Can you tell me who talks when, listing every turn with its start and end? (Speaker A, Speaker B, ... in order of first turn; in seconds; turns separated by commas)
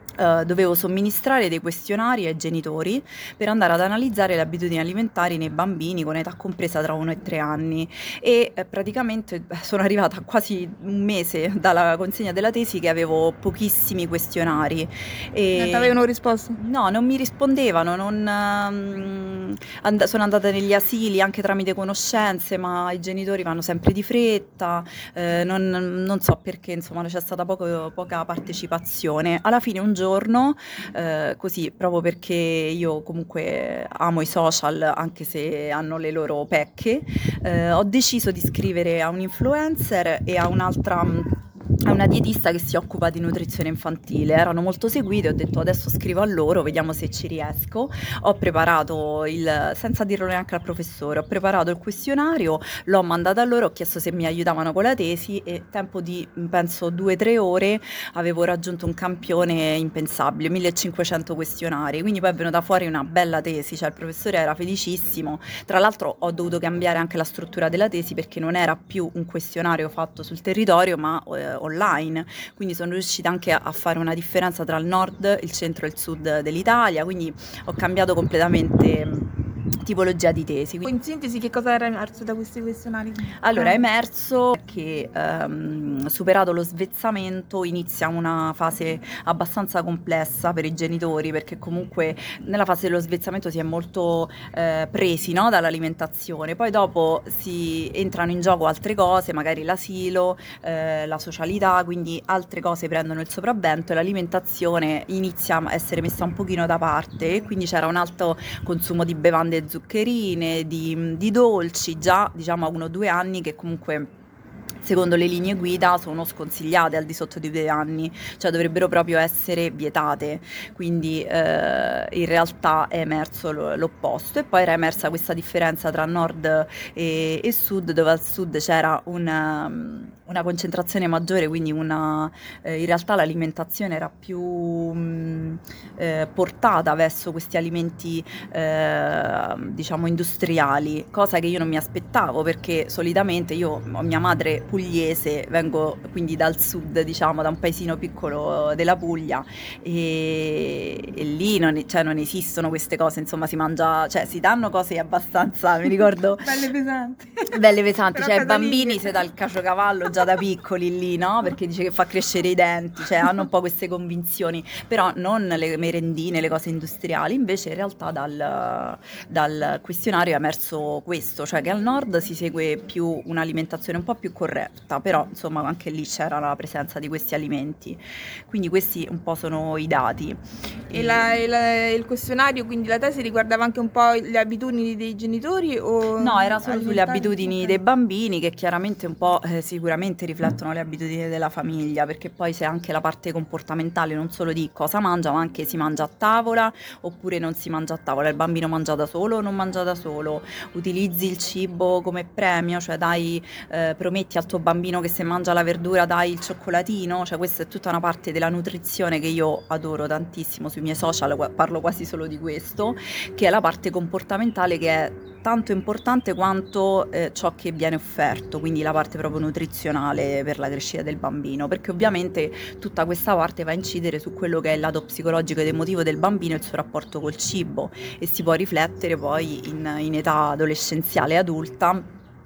Speaker A: 0.2-16.0, Speaker B: 15.5-16.6, Speaker A: 16.6-80.8, Speaker B: 80.8-83.8, Speaker A: 83.4-114.1, Speaker A: 114.8-156.6, Speaker B: 156.4-157.6, Speaker A: 157.5-181.3, Speaker B: 158.1-159.2, Speaker B: 180.9-187.8, Speaker A: 186.2-232.1